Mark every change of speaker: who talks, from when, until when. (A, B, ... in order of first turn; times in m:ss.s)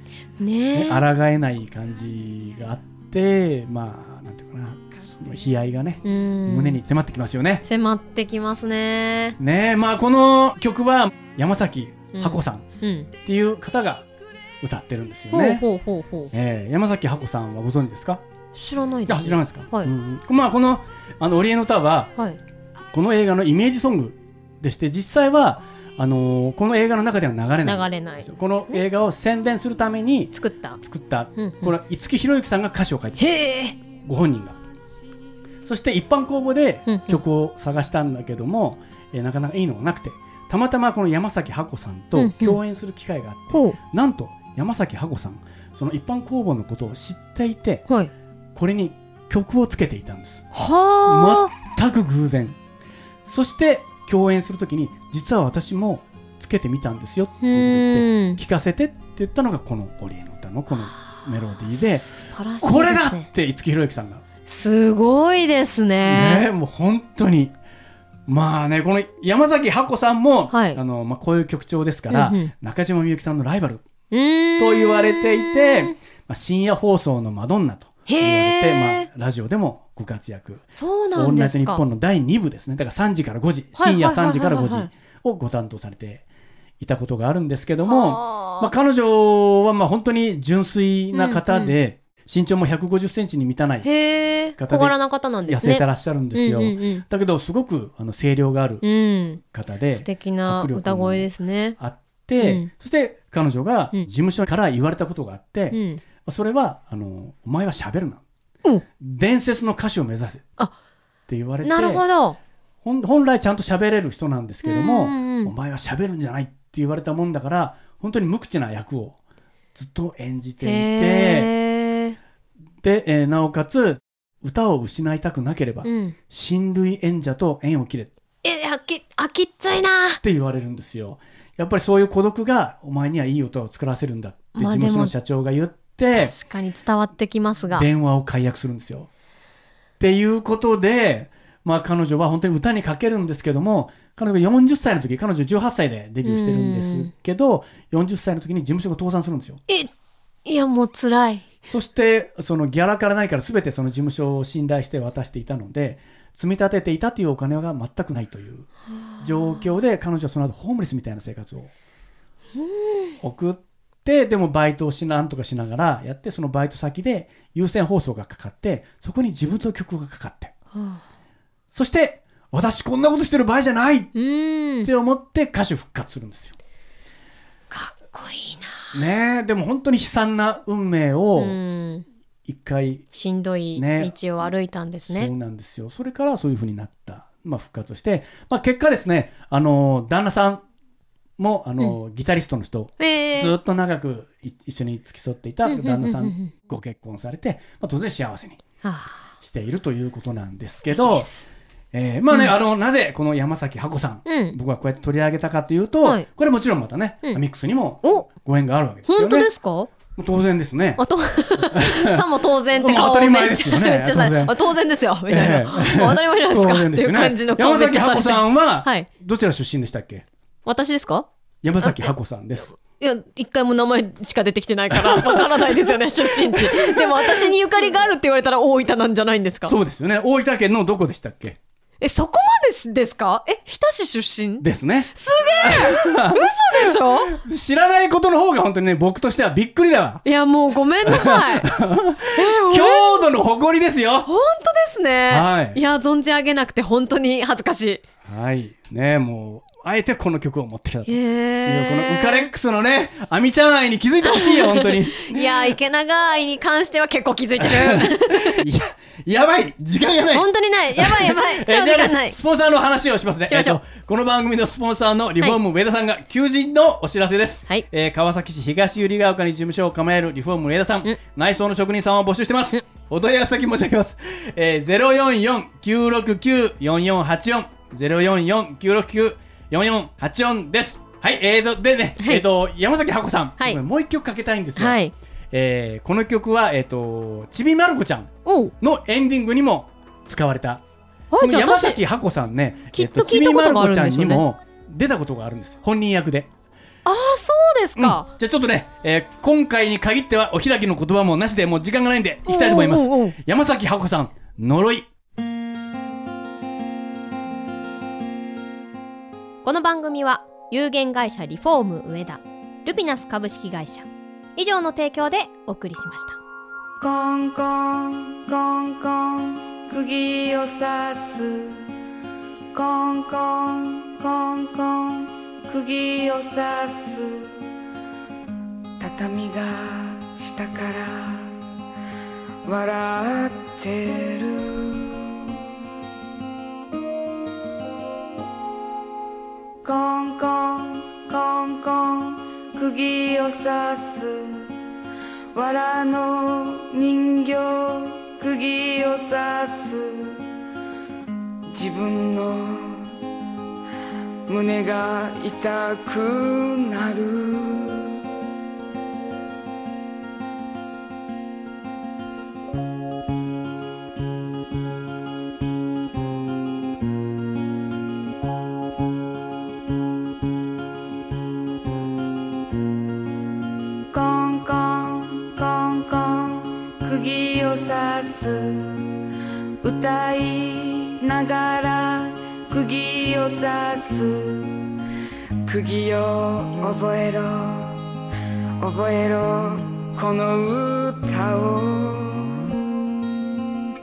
0:00.4-0:01.0 A
0:00.7-0:07.6 B
0:06.0-0:06.8 A
0:07.6-0:09.4 A
0:09.4-0:12.6 B
0:12.1-0:13.1 A
0:13.2-0:14.1 B
0:14.6-0:15.6 B
0:15.3-0:16.3 A
0:16.3-0:18.2 B
0:18.5-0:19.9 A
0:19.1-0:22.1 B
0:22.9-0:33.3 B
0:27.6-0:28.8 A
0:30.3-0:30.8 A
0:31.4-0:31.7 A
0:33.2-0:33.8 A
0:34.0-0:34.6 B
0:35.6-0:47.8 B
0:36.9-0:37.2 A
0:42.2-0:42.6 A
0:43.5-0:43.8 A
0:48.5-0:50.5 B
0:50.5-0:51.5 A
0:51.0-0:52.6 B
0:53.2-1:04.2 B
0:57.4-0:58.4 A
1:01.7-1:03.3 A
1:04.5-1:06.5 A
1:06.0-1:07.5 B
1:08.3-1:13.8 B
1:10.5-1:10.8 A
1:12.1-1:12.5 A
1:14.1-1:15.9 A
1:14.6-1:26.2 B
1:18.1-1:19.1 A
1:20.7-1:21.8 A
1:23.8-1:24.9 A
1:26.8-1:33.9 B
1:27.8-1:28.7 A
1:31.1-1:31.7 A
1:33.8-1:37.0 A
1:34.6-1:38.8 B
1:38.8-1:39.4 A
1:39.4-1:48.2 B
1:39.9-1:41.8 A
1:42.4-1:42.7 A
1:45.7-1:46.0 A
1:49.0-1:50.5 B
1:51.3-1:52.0 B
1:51.6-1:52.4 A
1:52.8-1:59.2 B
1:54.6-1:55.5 A
1:59.7-2:01.5 B
2:00.6-2:02.2 A
2:02.8-2:08.1 B
2:05.8-2:06.2 A
2:08.4-2:10.2 A
2:10.2-2:16.3 B
2:14.6-2:15.1 A
2:16.1-2:17.9 A
2:17.7-2:19.1 B
2:20.0-2:29.6 B
2:26.2-2:27.1 A
2:30.4-2:31.5 A
2:31.7-2:41.7 B
2:39.1-2:39.6 A
2:42.5-2:43.1 A
2:43.2-2:50.5 B
2:50.7-2:51.0 A
2:51.7-2:54.1 B
2:54.1-2:54.9 A
2:54.8-2:56.6 B
2:57.7-2:58.9 A
2:58.9-3:01.6 B
3:01.4-3:02.0 A
3:02.5-3:03.1 B
3:03.1-3:05.3 A
3:03.7-3:04.1 B
3:05.0-3:10.6 B
3:11.4-3:18.6 B
3:13.0-3:13.5 A
3:15.6-3:16.5 A
3:18.8-3:19.3 A
3:19.4-3:21.3 B
3:20.8-3:21.5 A
3:21.9-3:29.5 B
3:22.3-3:22.5 A
3:24.2-3:24.6 A
3:29.1-3:29.9 A
3:30.1-3:31.0 B
3:31.0-3:39.1 A
3:31.6-3:34.8 B
3:35.3-3:40.2 B
3:40.6-3:41.3 A
3:41.6-3:42.8 B
3:41.8-3:42.1 A
3:42.8-3:49.7 A
3:44.9-3:47.5 B
3:49.6-3:51.6 B
3:52.0-3:57.3 A
3:54.6-4:00.2 B
4:00.2-4:01.7 A
4:01.0-4:04.3 B
4:02.3-4:03.3 A
4:04.2-4:08.0 A
4:05.3-4:05.8 B
4:08.2-4:15.8 B
4:11.1-4:12.5 A
4:14.2-4:18.6 A
4:17.6-4:45.0 B
4:20.3-4:22.4 A
4:23.5-4:23.8 A
4:42.2-4:42.4 A
4:44.8-4:45.1 A
4:45.5-4:50.8 B
4:48.4-4:48.7 A
4:51.3-4:52.0 A
4:51.4-4:56.5 B
4:52.9-4:54.4 A
4:57.0-4:58.3 A
4:58.0-5:05.1 B
5:02.4-5:03.4 A
5:09.6-5:16.4 A
5:17.0-5:21.8 C
5:22.7-5:27.6 C
5:29.0-5:31.5 C
5:32.6-5:35.4 C
5:39.8-5:44.7 C
5:45.5-5:50.4 C
5:51.7-5:53.2 C
5:54.5-5:58.2 C
6:14.1-6:19.1 C
6:19.8-6:24.8 C
6:25.6-6:28.0 C
6:28.8-6:32.6 C